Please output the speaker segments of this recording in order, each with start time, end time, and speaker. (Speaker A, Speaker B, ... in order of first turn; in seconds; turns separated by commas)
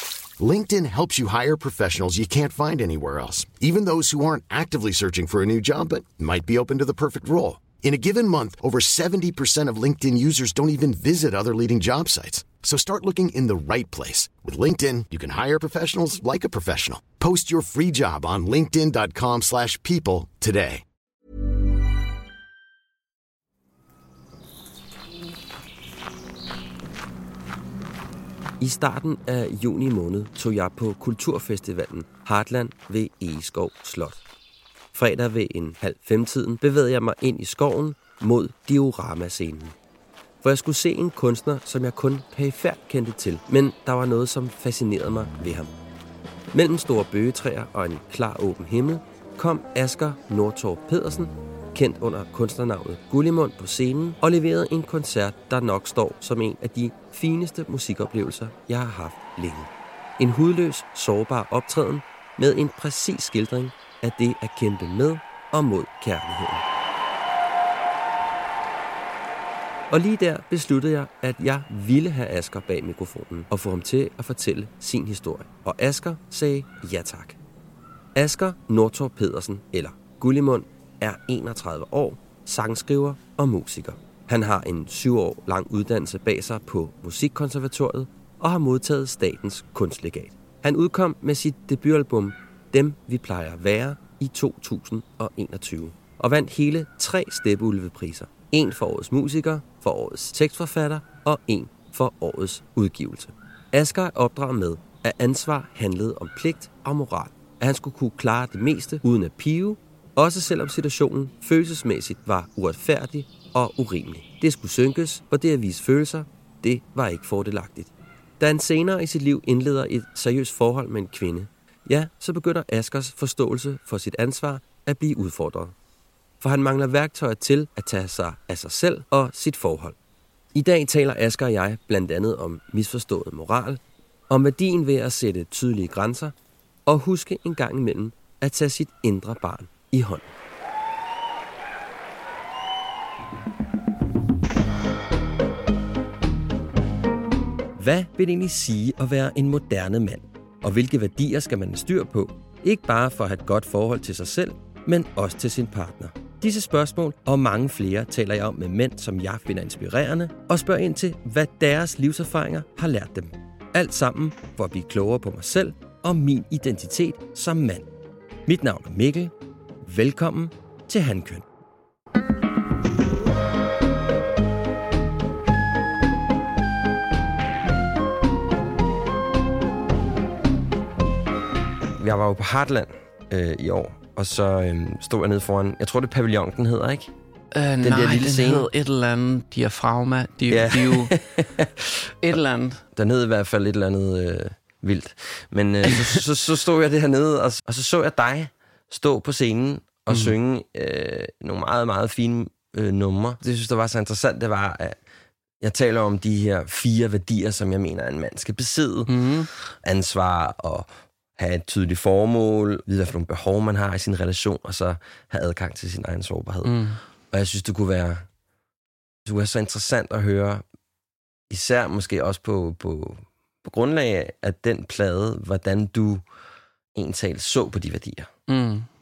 Speaker A: 0.4-20.8, Speaker B: 28.6-34.2, Speaker B: 34.9-39.8, Speaker B: 40.4-45.7, Speaker B: 46.5-66.7, Speaker B: 69.9-77.4, Speaker B: 78.2-125.8, Speaker B: 126.4-130.0, Speaker B: 130.5-136.3, Speaker B: 136.9-140.3, Speaker B: 147.8-167.9, Speaker B: 168.5-171.4, Speaker B: 182.0-187.1, Speaker C: 187.5-191.2, Speaker B: 187.8-188.7, Speaker B: 190.5-191.7, Speaker C: 192.2-192.8, Speaker B: 193.0-205.0, Speaker C: 195.9-196.2, Speaker C: 200.1-200.3, Speaker B: 205.6-209.1, Speaker C: 209.1-209.5, Speaker B: 209.8-216.8, Speaker C: 216.6-217.0, Speaker B: 217.3-218.3, Speaker B: 219.3-220.6, Speaker B: 221.5-226.2, Speaker B: 226.9-228.3, Speaker C: 228.5-228.9